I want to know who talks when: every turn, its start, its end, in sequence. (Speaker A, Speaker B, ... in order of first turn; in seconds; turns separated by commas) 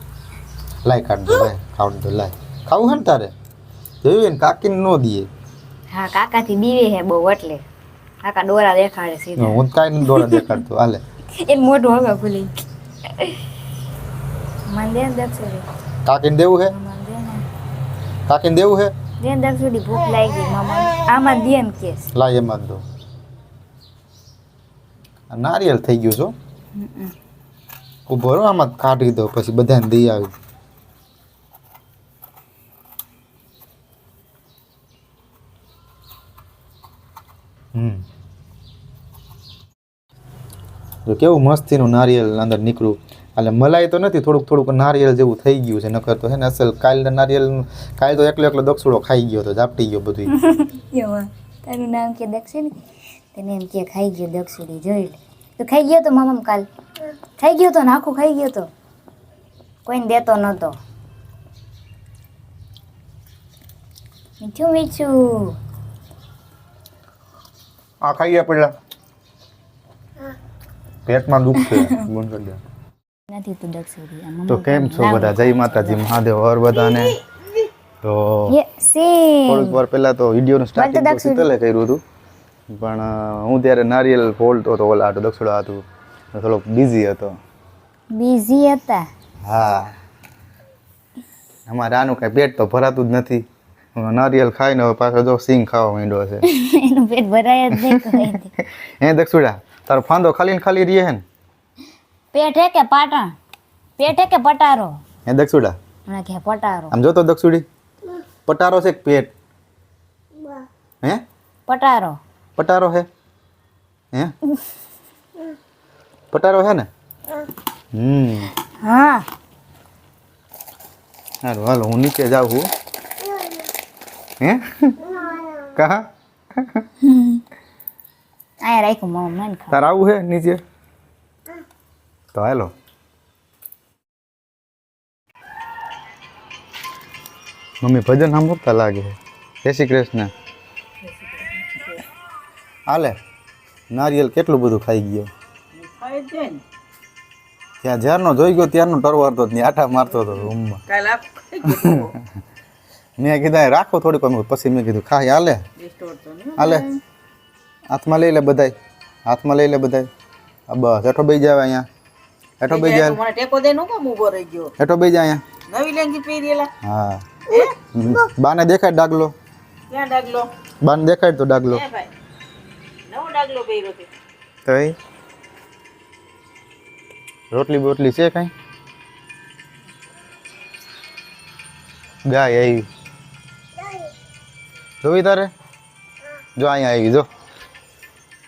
Speaker A: 0.8-3.3, Speaker A: 4.0-5.3, Speaker B: 5.9-7.6, Speaker B: 8.2-10.6, Speaker A: 9.4-11.0, Speaker B: 11.4-12.5, Speaker B: 14.7-15.7, Speaker A: 16.0-16.7, Speaker B: 16.7-17.4, Speaker A: 18.3-18.9, Speaker B: 19.2-22.1, Speaker A: 22.1-22.8, Speaker A: 25.3-26.3, Speaker B: 26.7-27.1, Speaker A: 28.1-30.3, Speaker A: 37.7-38.0, Speaker A: 41.0-50.3, Speaker B: 50.3-52.8, Speaker B: 53.3-56.7, Speaker B: 57.4-58.7, Speaker B: 59.9-60.8, Speaker B: 64.4-65.6, Speaker A: 68.0-68.7, Speaker A: 71.0-72.6, Speaker B: 71.7-72.0, Speaker B: 73.3-76.0, Speaker A: 74.5-77.2, Speaker A: 78.0-78.5, Speaker B: 78.5-79.8, Speaker A: 79.5-82.0, Speaker B: 80.8-81.5, Speaker A: 82.7-85.8, Speaker A: 86.3-87.4, Speaker B: 88.1-89.0, Speaker A: 89.5-89.9, Speaker A: 91.7-96.4, Speaker B: 96.4-98.5, Speaker A: 97.7-98.0, Speaker A: 98.6-101.2, Speaker B: 102.3-103.3, Speaker B: 104.0-104.9, Speaker A: 105.3-105.8, Speaker B: 106.1-106.9, Speaker A: 106.9-107.7, Speaker A: 108.5-109.3, Speaker B: 111.7-112.2, Speaker A: 112.6-113.1, Speaker A: 116.3-116.9, Speaker A: 117.9-118.5, Speaker B: 118.8-119.3, Speaker A: 121.4-122.7, Speaker A: 124.4-125.1, Speaker A: 125.7-126.8, Speaker B: 127.0-127.4, Speaker B: 128.6-129.8, Speaker A: 129.7-130.6, Speaker A: 132.3-132.7, Speaker A: 137.8-140.3, Speaker B: 141.0-142.0, Speaker A: 142.9-143.2, Speaker A: 143.9-145.3, Speaker C: 145.7-146.6, Speaker A: 147.8-150.8, Speaker C: 150.9-152.2, Speaker A: 153.2-155.6, Speaker C: 155.8-157.0, Speaker A: 156.6-156.9, Speaker A: 157.9-160.1, Speaker A: 160.7-161.8, Speaker A: 162.6-163.2, Speaker C: 162.7-164.7, Speaker A: 164.8-165.4, Speaker C: 165.7-166.7, Speaker A: 166.8-167.2, Speaker C: 167.5-167.7, Speaker A: 167.9-169.3, Speaker C: 169.9-170.5, Speaker A: 170.8-171.8, Speaker C: 171.7-172.1, Speaker C: 173.1-174.1, Speaker A: 174.6-175.0, Speaker A: 177.5-178.5, Speaker A: 182.3-182.9, Speaker A: 185.0-185.5, Speaker A: 186.6-187.3